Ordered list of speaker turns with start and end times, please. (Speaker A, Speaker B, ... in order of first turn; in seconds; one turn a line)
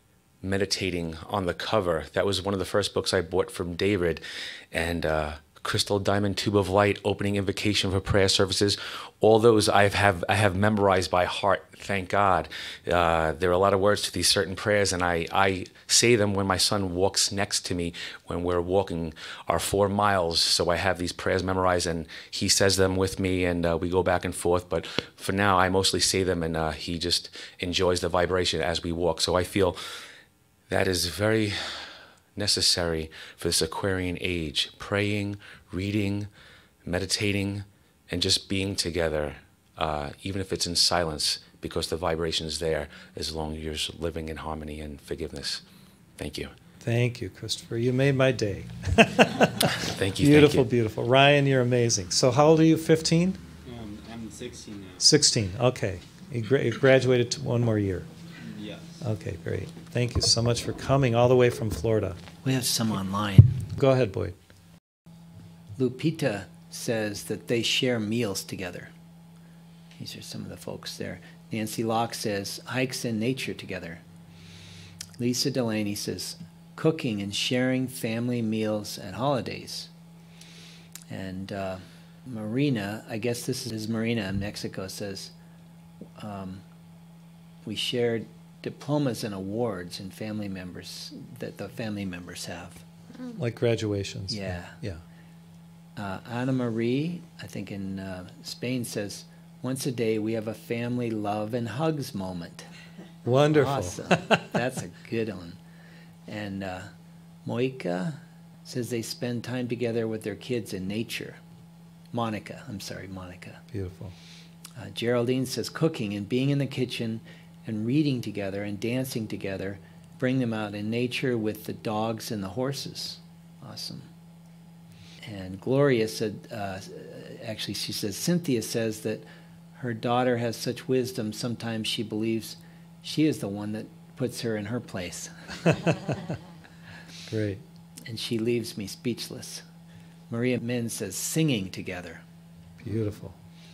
Speaker A: 0.4-29.8
Speaker A: 30.7-36.3
Speaker A: 36.9-45.6
Speaker A: 46.2-46.5
Speaker B: 46.8-53.4
Speaker A: 49.7-50.7
Speaker C: 53.6-55.1
Speaker B: 55.0-58.1
Speaker C: 58.4-59.0
Speaker B: 59.0-62.2
Speaker D: 62.4-63.6
Speaker B: 63.8-64.4
Speaker D: 65.8-68.9
Speaker D: 70.0-74.0
Speaker D: 75.2-79.9
Speaker D: 81.1-85.3
Speaker D: 86.2-86.7
Speaker D: 87.6-92.8
Speaker B: 93.2-95.0
Speaker D: 94.3-94.8
Speaker D: 96.0-102.7
Speaker B: 103.2-104.5
Speaker D: 103.5-105.6
Speaker D: 106.3-106.9
Speaker D: 107.5-111.4
Speaker D: 112.1-113.6
Speaker B: 113.7-114.2
Speaker D: 114.8-124.1
Speaker D: 125.2-135.3
Speaker B: 135.7-136.2
Speaker B: 137.3-137.6
Speaker D: 138.0-139.7
Speaker D: 140.3-142.2
Speaker B: 142.8-143.4